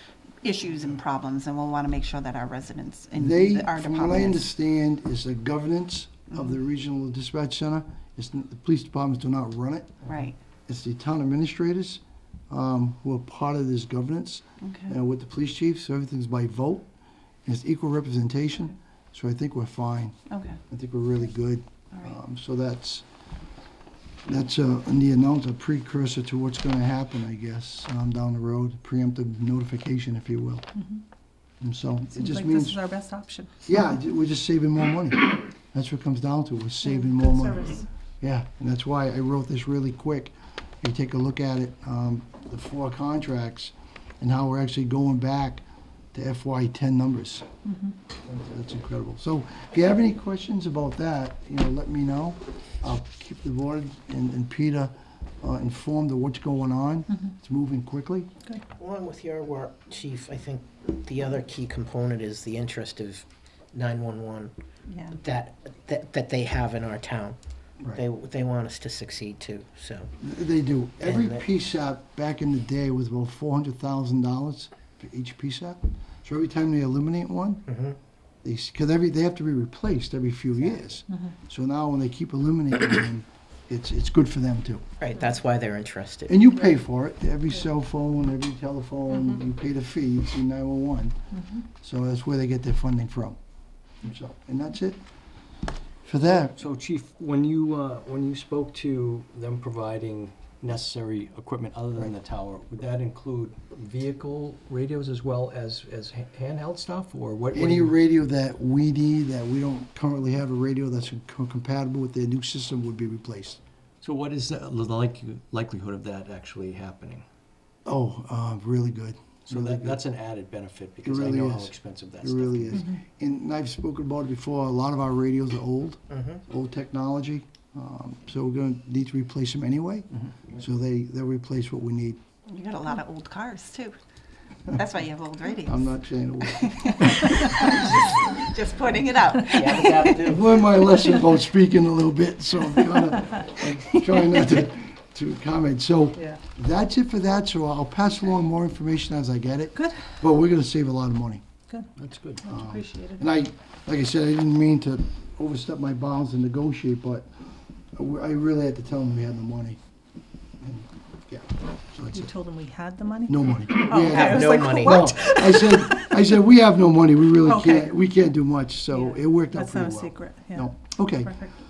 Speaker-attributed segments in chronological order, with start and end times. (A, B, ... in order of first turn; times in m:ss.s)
0:00.4-0:04.5 A
0:03.1-0:10.1 B
0:10.1-0:10.4 A
0:10.7-0:16.9 B
0:14.6-0:15.0 A
0:17.4-0:20.2 B
0:20.3-0:20.6 A
0:20.7-0:23.0 B
0:24.2-0:30.7 B
0:30.8-0:31.0 C
0:31.6-0:32.8 B
0:32.1-0:33.5 C
0:33.6-0:47.4 B
0:36.9-0:37.8 C
0:47.6-0:47.9 C
0:48.2-0:58.3 B
0:58.8-1:04.5 D
1:04.9-1:05.2 C
1:05.1-1:10.1 D
1:10.2-1:17.7 B
1:11.0-1:11.4 D
1:17.7-1:18.0 D
1:18.4-1:24.8 B
1:20.6-1:20.9 D
1:25.0-1:26.4 D
1:26.3-1:31.2 B
1:31.3-1:31.6 C
1:31.8-1:33.4 B
1:34.0-1:35.0 B
1:36.0-1:36.6 B
1:36.6-1:47.9 E
1:47.5-1:53.6 B
1:54.0-1:57.2 E
1:57.8-2:00.0 B
1:59.5-2:02.8 E
2:01.0-2:12.2 B
2:06.1-2:06.4 D
2:12.4-2:14.0 A
2:14.7-2:15.9 A
2:15.6-2:17.2 B
2:16.6-2:20.1 A
2:19.5-2:20.6 D
2:20.2-2:31.4 B
2:29.8-2:30.0 C
2:32.0-2:32.4 E
2:32.4-2:33.2 C
2:32.5-2:37.4 B
2:37.9-2:39.8 B
2:40.6-2:42.3 B
2:42.1-2:46.2 C
2:43.3-2:51.4 B
2:43.8-2:45.1 D
2:47.4-2:47.9 C
2:48.9-2:51.5 C